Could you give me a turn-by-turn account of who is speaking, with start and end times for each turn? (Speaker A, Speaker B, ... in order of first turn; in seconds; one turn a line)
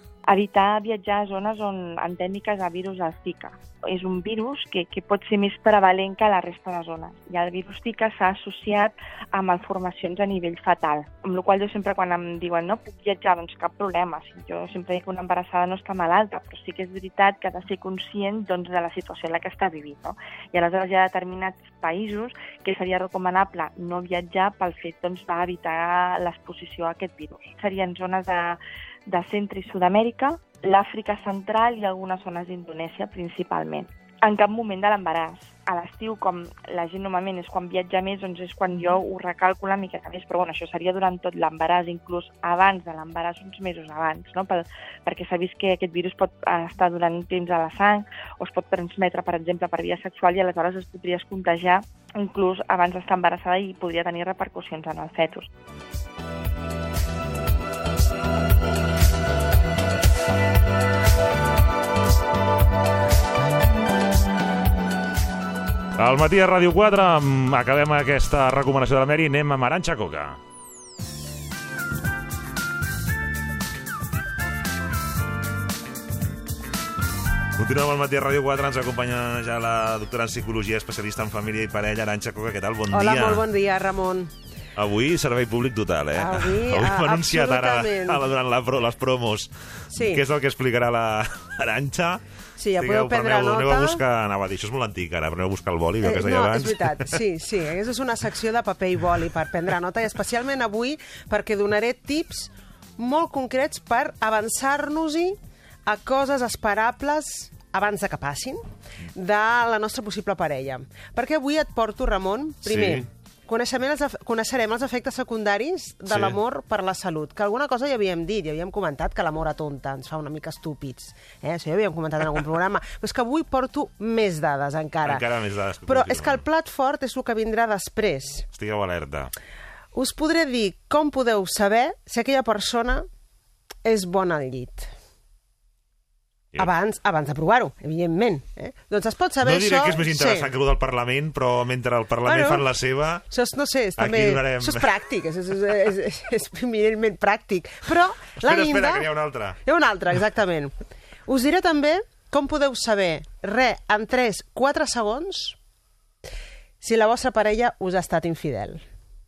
Speaker A: 0.3-55.5
Speaker B: 66.0-70.4
Speaker B: 77.6-83.4
Speaker C: 82.9-84.3
Speaker B: 84.8-92.2
Speaker C: 86.2-88.2
Speaker C: 89.9-90.2
Speaker C: 92.6-94.0
Speaker B: 92.8-97.2
Speaker C: 96.0-108.6
Speaker C: 109.2-125.3
Speaker B: 112.6-113.1
Speaker B: 116.1-116.4
Speaker B: 125.0-126.4
Speaker C: 125.9-128.5
Speaker B: 128.5-129.3
Speaker C: 129.9-133.1
Speaker C: 133.8-134.9
Speaker C: 136.6-140.5
Speaker B: 139.4-143.2
Speaker C: 142.2-142.7
Speaker C: 143.3-149.1
Speaker B: 144.0-144.9
Speaker B: 148.4-149.6
Speaker C: 149.7-150.7
Speaker C: 151.3-155.6
Speaker C: 156.8-158.8